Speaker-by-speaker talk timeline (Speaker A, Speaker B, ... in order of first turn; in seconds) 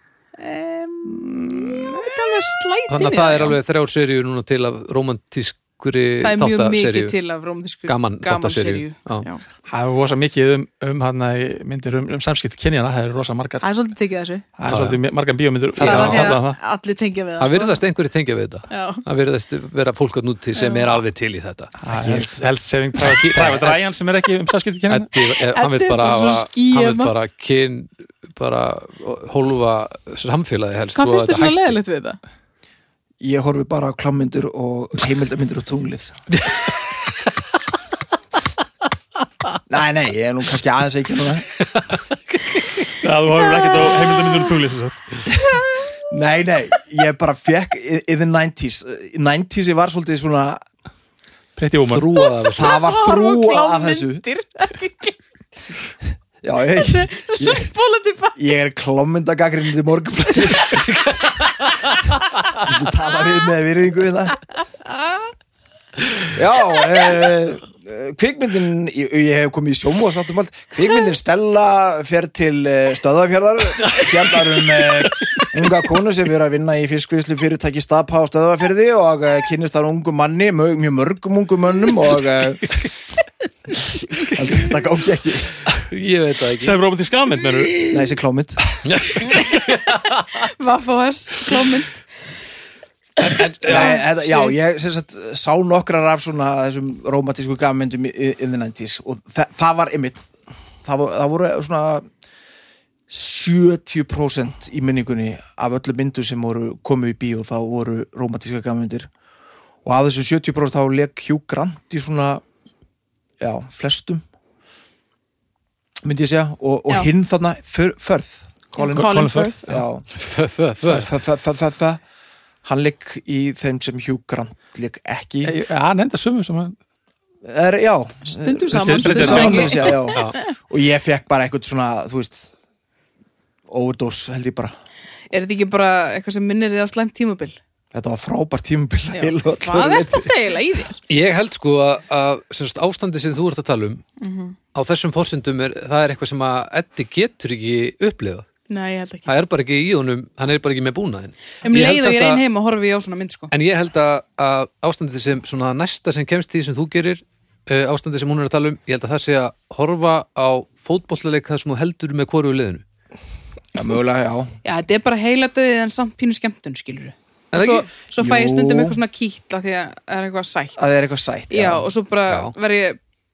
Speaker A: 0.4-3.6, 6.2-9.4, 13.6-14.4, 15.8-17.8, 18.7-19.0, 20.5-21.0, 25.4-27.1, 30.9-32.2, 45.5-45.9, 52.4-55.2, 56.8-58.4, 64.9-65.3, 90.3-92.0, 93.6-94.5, 118.7-119.6, 128.3-130.5, 135.3-137.6, 139.1-141.0, 144.2-144.6, 148.7-149.3, 151.6-153.5, 164.6-170.8, 171.5-173.0
Speaker B: 1.1-2.1, 9.7-13.7, 14.6-16.6, 21.8-25.1, 42.9-45.2, 51.5-52.2, 86.6-88.0, 118.9-119.7, 125.4-126.8, 128.7-130.0
Speaker C: 2.9-7.2, 7.9-9.2, 14.7-15.0, 15.8-16.4, 17.4-21.7, 23.1-23.7, 24.9-31.7, 36.4-37.1, 51.9-52.8, 60.6-61.8, 85.8-86.8, 88.8-90.4, 93.2-94.0, 120.1-121.1, 141.1-144.0, 144.7-148.5, 149.3-152.4, 153.5-162.8, 167.5-167.9, 172.3-172.5
Speaker D: 21.8-22.4, 33.2-36.2, 39.7-41.5, 46.1-50.6, 52.5-54.2, 56.4-57.7, 58.4-61.0, 62.5-64.4, 66.3-82.8, 84.2-85.5, 87.9-88.6, 93.2-100.2, 100.8-102.0, 103.1-109.1, 109.8-112.4, 113.4-114.2, 116.0-119.1, 119.6-120.0, 120.8-122.0, 122.6-125.6, 127.4-132.5, 133.7-134.7, 137.9-140.3, 163.7-164.5, 168.2-169.0, 170.8-171.9